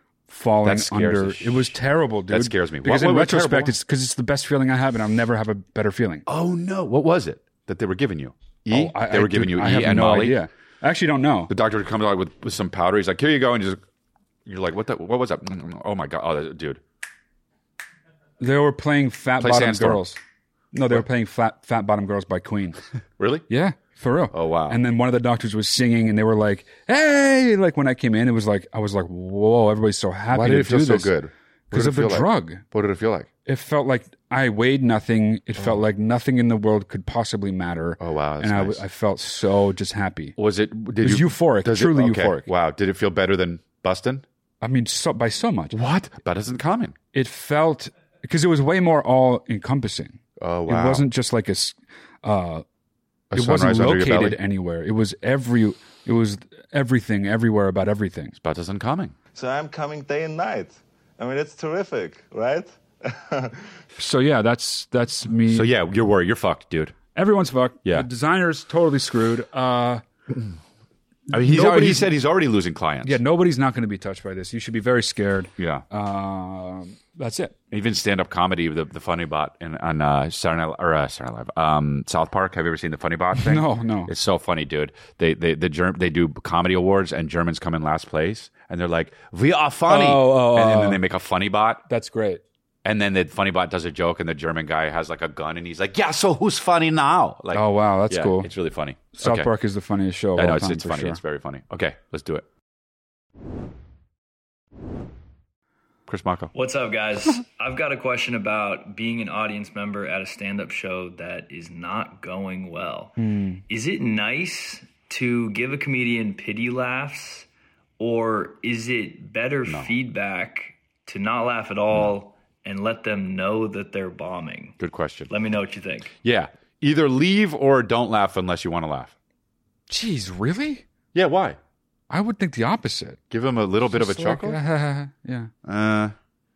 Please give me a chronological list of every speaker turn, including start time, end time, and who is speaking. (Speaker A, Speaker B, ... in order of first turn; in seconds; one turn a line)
Speaker A: 0.3-6.2
Speaker B: 0.6-1.7
Speaker B: 2.3-3.7
Speaker B: 6.3-10.4
Speaker A: 8.7-11.5
Speaker B: 11.5-13.8
Speaker B: 14.5-16.8
Speaker A: 18.4-20.2
Speaker B: 19.4-20.0
Speaker A: 20.7-22.8
Speaker B: 23.2-23.4
Speaker A: 23.5-31.1
Speaker B: 24.3-24.8
Speaker B: 30.3-33.3
Speaker A: 31.7-32.6
Speaker A: 33.5-40.4
Speaker B: 38.0-38.8
Speaker B: 40.4-44.2
Speaker A: 41.0-42.5
Speaker A: 44.6-45.8
Speaker B: 45.7-47.0
Speaker A: 47.1-52.6
Speaker B: 50.4-51.1
Speaker B: 53.3-54.4
Speaker A: 53.4-58.4
Speaker B: 58.4-59.1
Speaker C: 59.4-63.7
Speaker A: 64.0-65.7
Speaker B: 65.5-67.0
Speaker A: 67.2-70.0
Speaker A: 71.3-72.1
Speaker B: 71.3-73.2
Speaker A: 73.0-77.5
Speaker B: 75.6-75.8
Speaker B: 77.7-91.8
Speaker A: 83.4-84.1
Speaker A: 89.9-91.0
Speaker A: 91.9-92.4
Speaker B: 92.8-99.5
Speaker A: 97.5-98.5
Speaker A: 99.1-101.2
Speaker B: 100.4-102.5
Speaker B: 106.1-106.5
Speaker D: 106.5-113.1
Speaker A: 113.2-113.6
Speaker D: 113.7-117.5
Speaker D: 118.0-124.8
Speaker B: 119.7-119.9
Speaker B: 124.8-125.3
Speaker D: 125.3-126.2
Speaker B: 126.2-129.1
Speaker A: 129.9-130.8
Speaker B: 131.1-131.6
Speaker A: 132.1-133.2
Speaker B: 133.3-134.6
Speaker A: 133.9-135.5
Speaker B: 135.7-136.2